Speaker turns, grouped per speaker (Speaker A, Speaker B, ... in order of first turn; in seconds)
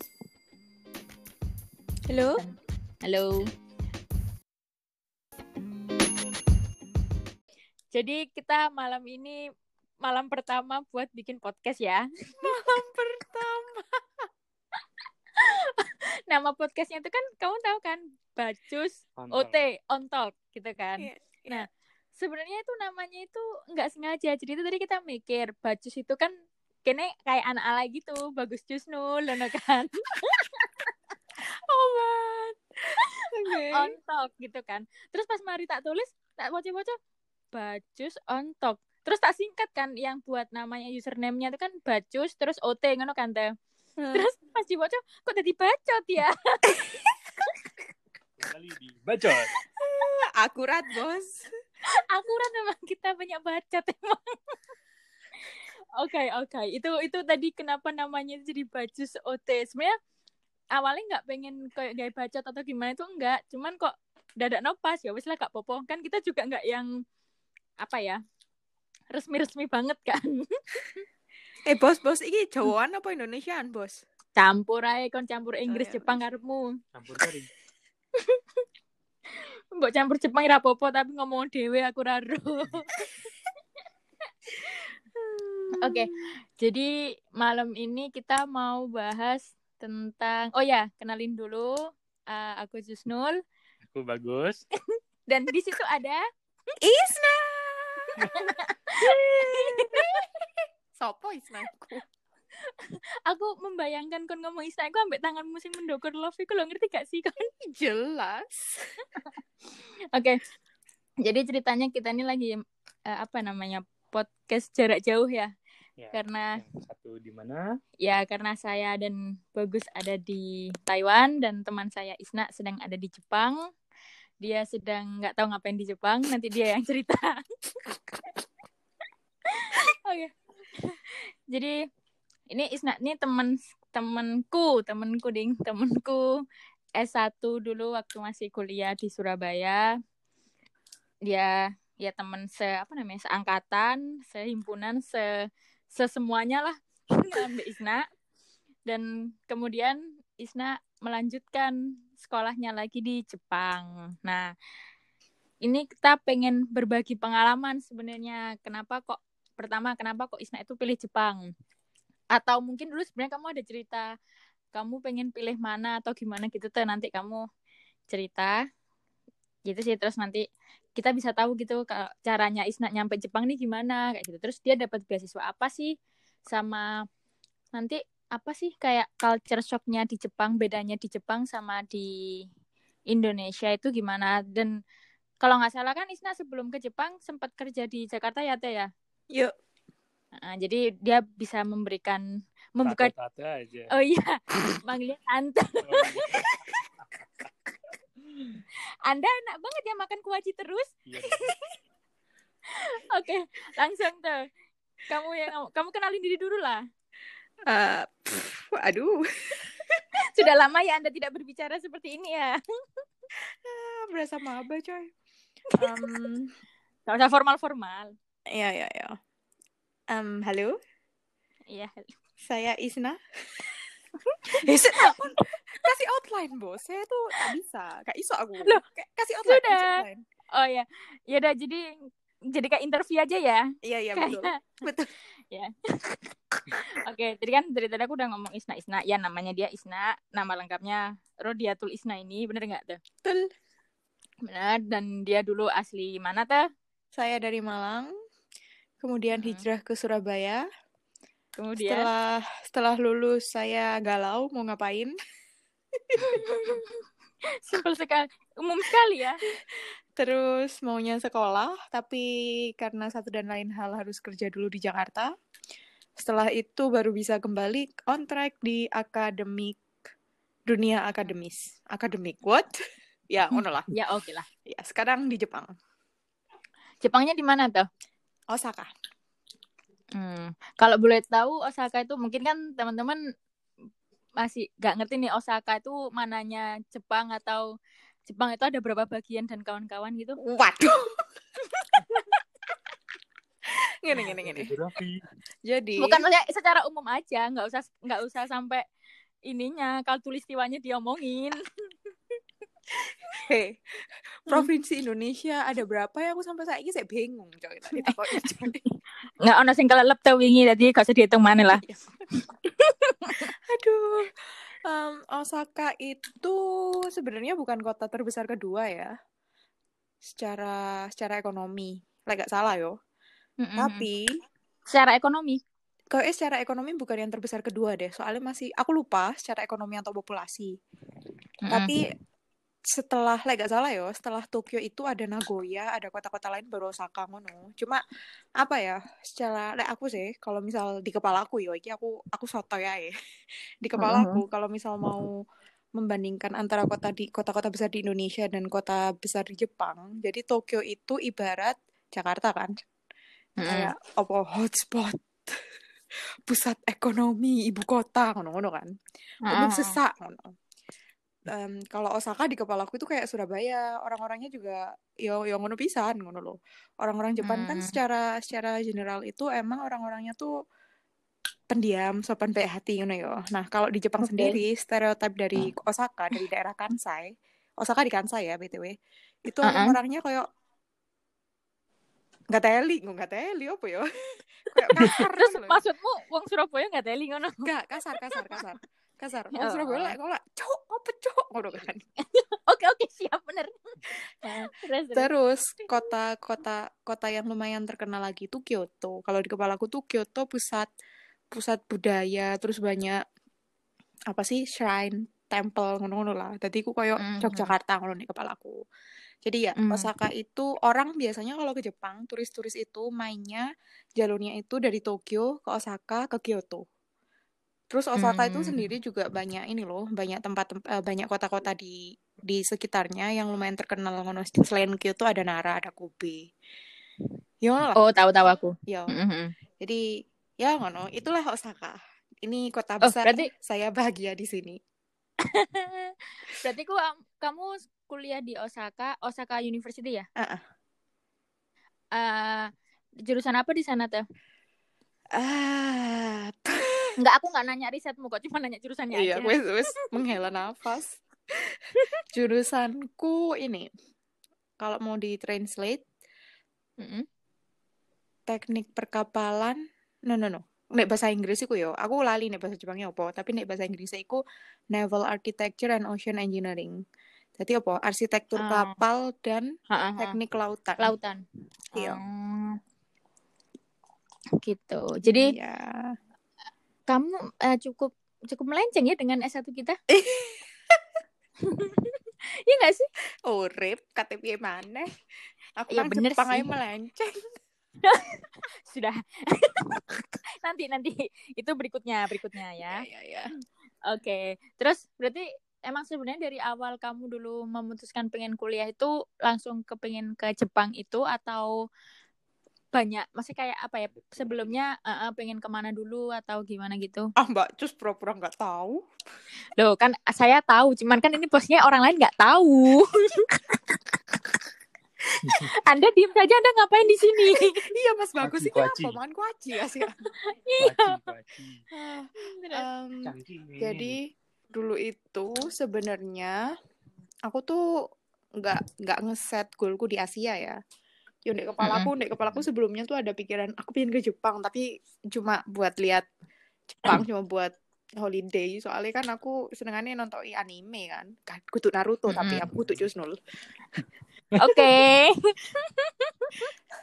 Speaker A: 2.1-2.4, 12.4-14.3, 21.0-21.6, 31.7-33.9, 44.0-44.3, 49.8-51.3, 71.7-74.0, 75.7-76.2, 85.1-86.0, 96.8-98.2, 99.0-102.0, 107.6-108.8, 207.7-210.0, 213.6-215.1, 215.8-216.5, 218.5-219.1, 220.1-220.7, 222.5-223.2, 224.6-230.2, 233.8-235.1, 243.2-243.5, 247.2-248.1, 249.0-250.6, 251.8-255.1, 256.1-256.8, 259.6-262.2, 262.8-265.3, 266.2-269.8, 270.7-272.7, 273.3-273.9, 274.7-275.7, 278.5-278.9, 290.4-291.0, 291.8-292.0, 294.0-294.7, 295.7-296.2, 303.3-303.7, 304.5-308.8, 311.7-312.0, 313.7-319.1, 320.3-322.9, 323.8-324.2, 326.1-330.7, 331.7-332.0, 332.9-338.0, 338.6-343.1, 343.8-345.3, 346.0-352.7, 353.6-355.6, 356.5-358.9, 359.5-360.5, 361.5-370.5, 371.7-378.9, 379.4-380.4, 382.5-384.0, 384.7-385.8, 387.6-392.0, 395.1-400.9, 401.5-403.2, 404.3-408.8, 409.4-413.6, 414.2-416.8, 417.9-426.5, 427.6-428.0, 430.6-434.8, 440.4-440.6, 445.3-446.9, 449.1-451.2, 452.3-453.9, 454.8-456.0, 458.5-464.4, 464.9-466.9, 467.6-469.7, 470.2-471.1, 475.2-476.1, 480.1-481.0, 483.5-485.1, 485.8-487.4, 492.8-493.5, 507.4-509.0, 517.5-520.1, 522.1-524.2, 524.7-526.5, 527.5-527.8, 528.6-530.8, 531.5-536.3, 537.0-543.4
Speaker B: 3.0-3.4, 7.9-9.4, 10.0-12.6, 15.4-21.7, 22.2-26.3, 26.8-30.8, 33.7-36.9, 37.5-43.5, 44.1-46.8, 51.9-54.4, 56.0-59.9, 60.7-66.9, 67.8-68.2, 69.1-70.9, 74.3-76.8, 79.8-83.1, 85.8-93.4, 95.3-96.2, 98.2-100.2, 103.3-107.5, 111.2-112.5, 113.1-115.5, 116.1-116.5, 118.0-123.6, 124.4-127.4, 129.5-131.7, 132.5-136.3, 137.0-139.9, 141.2-148.0, 148.9-154.5, 155.6-161.5, 162.3-164.1, 164.7-167.4, 168.1-168.6, 169.7-170.4, 171.0-175.9, 176.5-177.0, 177.8-182.4, 183.1-184.7, 185.4-188.9, 190.4-192.2, 192.8-193.1, 193.9-196.5, 199.1-200.9, 202.9-204.4, 205.1-206.8, 210.3-212.6, 215.8-216.1, 217.1-218.1, 221.7-222.1, 224.5-225.2, 229.4-230.0, 230.6-231.8, 232.5-233.6, 234.2-234.5, 235.5-236.2, 236.7-243.0, 244.4-246.6, 249.3-249.6, 251.6-252.1, 257.6-259.4, 273.9-274.4, 277.0-277.9, 280.2-283.2, 284.4-287.6, 288.3-290.4, 296.0-298.8, 299.5-301.6, 307.9-308.5, 309.4-311.8, 312.4-313.5, 323.6-324.1, 324.9-325.6, 331.6-331.9, 344.0-344.4, 353.6-353.9, 359.5-360.0, 367.4-367.9, 374.2-374.6, 379.6-379.9, 384.9-387.6, 389.6-390.1, 392.3-393.7, 394.4-395.3, 407.2-407.7, 409.8-410.1, 418.2-418.9, 427.9-429.5, 433.0-433.5, 435.4-440.2, 442.1-442.7, 443.3-444.2, 447.2-449.6, 468.6-469.0, 469.9-470.4, 471.0-471.4, 472.0-472.8, 474.6-475.5, 477.1-480.0, 481.7-483.1, 485.9-486.6, 488.0-490.1, 490.6-493.0, 494.0-501.7, 502.9-507.3, 509.8-514.0, 515.5-517.8, 520.3-521.1, 522.4-522.8, 531.8-532.1, 542.3-542.6, 544.6-546.7
Speaker C: 19.2-19.6, 48.4-49.5, 76.9-77.5, 93.9-94.6, 116.0-117.6, 192.8-193.9, 195.8-196.5, 201.1-201.6, 294.1-295.2, 504.1-504.7, 518.4-519.2, 520.8-521.8, 523.2-524.1, 532.2-532.5